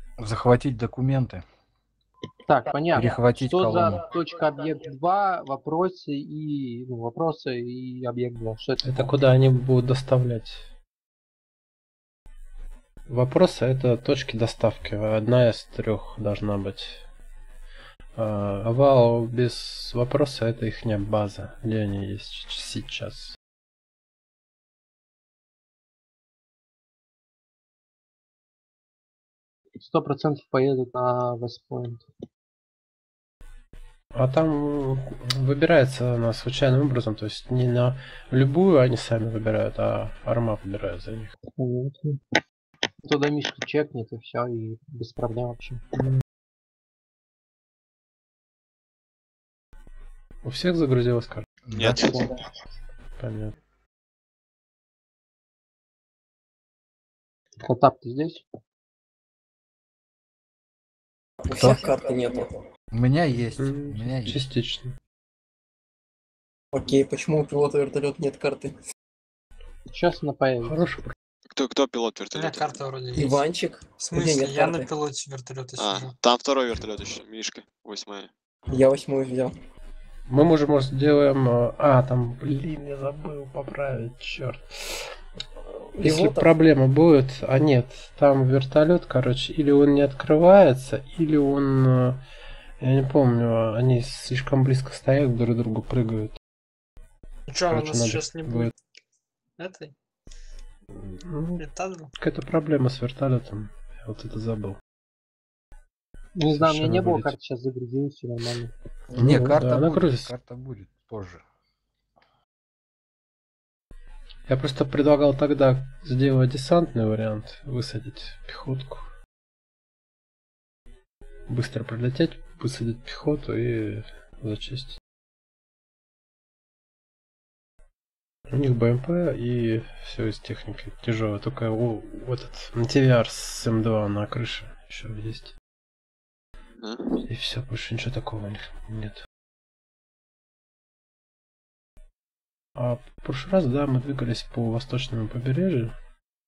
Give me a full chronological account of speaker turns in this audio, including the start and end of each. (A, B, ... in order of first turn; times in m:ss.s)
0:00.2-0:01.4 A
0:02.5-0:09.1 B
0:02.9-0:04.0 A
0:08.8-0:10.6 C
0:13.1-0:17.0 C
0:18.2-0:23.3 C
0:29.8-0:32.0 B
0:34.1-0:41.3 C
0:41.6-0:42.2 B
0:43.0-0:45.8 B
0:50.4-0:51.4 C
0:51.6-0:52.2 A
0:51.7-0:52.2 D
0:53.2-0:53.5 C
0:57.6-0:58.4 B
1:01.4-1:02.5 E
1:01.5-1:01.8 A
1:02.9-1:04.4 A
1:03.6-1:04.9 C
1:06.7-1:08.7 E
1:09.9-1:10.8 B
1:10.6-1:11.1 C
1:11.5-1:12.8 D
1:12.3-1:13.4 F
1:13.1-1:14.9 E
1:14.0-1:16.1 F
1:15.8-1:18.3 D
1:18.7-1:19.5 E
1:20.3-1:25.1 C
1:25.9-1:32.2 C
1:26.0-1:26.5 E
1:32.8-1:36.3 C
1:37.5-1:38.7 F
1:37.7-1:38.7 C
1:39.6-1:39.9 F
1:41.0-1:41.6 C
1:41.6-1:42.1 F
1:42.2-1:44.8 C
1:46.4-1:48.7 B
1:46.5-1:47.3 C
1:49.1-1:50.3 C
1:49.1-1:51.4 A
1:54.5-1:59.1 C
2:01.5-2:05.0 C
2:08.5-2:15.5 C
2:16.8-2:17.2 D
2:17.3-2:19.2 C
2:22.8-2:26.0 C